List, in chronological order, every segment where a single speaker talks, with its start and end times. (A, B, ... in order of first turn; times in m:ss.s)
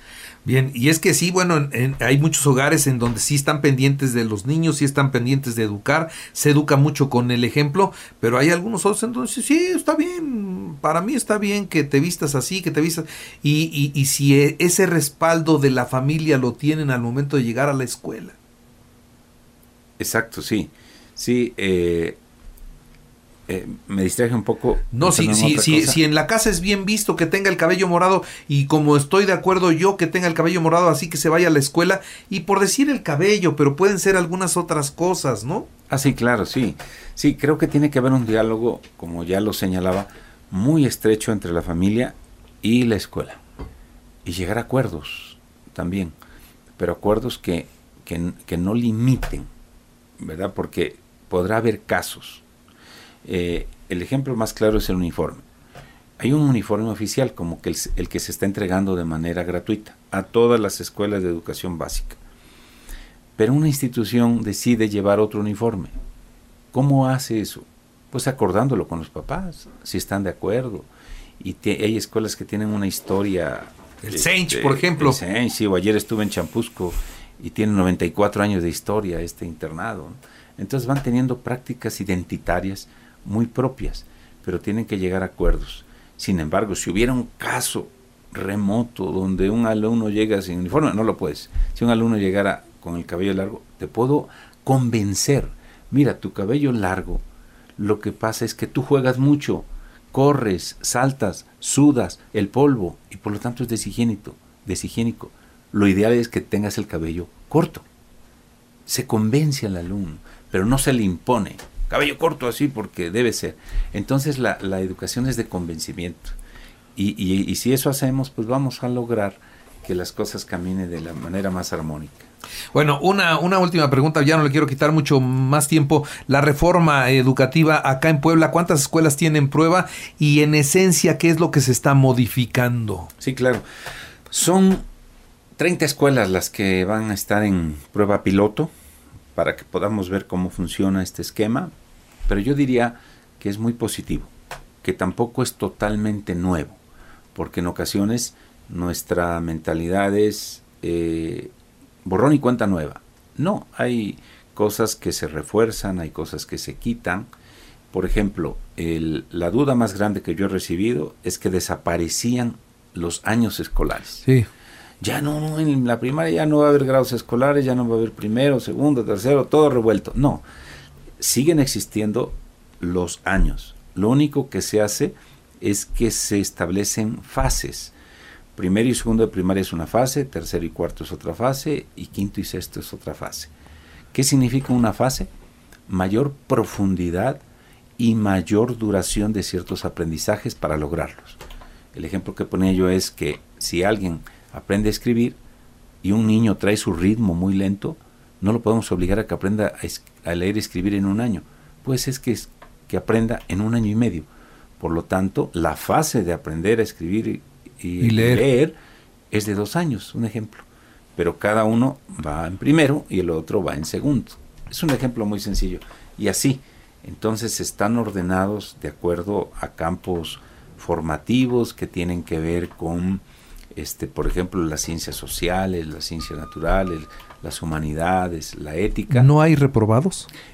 0:00.4-0:18.4 A
0:20.0-0:22.2 B
0:23.5-0:26.0 B
0:24.9-0:35.7 A
0:35.9-0:43.4 B
0:44.2-0:46.1 B
0:46.8-0:49.5 B
0:50.2-0:52.4 B
0:53.2-0:55.4 B
0:56.2-1:02.2 B
1:03.4-1:05.9 B
1:06.7-1:10.9 B
1:11.4-1:37.2 B
1:14.0-1:15.2 A
1:37.8-1:47.8 B
1:48.9-1:56.4 B
1:57.0-2:02.3 B
2:02.7-2:13.1 A
2:13.2-2:13.6 B
2:14.3-2:14.8 B
2:15.6-2:18.7 B
2:19.3-2:21.7 B
2:22.3-2:24.3 B
2:24.8-2:26.8 B
2:27.3-2:31.5 B
2:32.0-2:37.3 B
2:37.9-2:44.2 B
2:45.0-2:50.4 B
2:51.2-2:57.9 B
2:58.6-3:03.5 B
3:04.1-3:05.3 B
3:05.9-3:07.4 B
3:08.0-3:11.4 B
3:11.9-3:15.4 B
3:16.0-3:24.3 B
3:24.8-3:28.8 B
3:28.0-3:28.5 A
3:29.3-3:43.2 B
3:43.7-3:49.3 B
3:49.1-3:50.3 A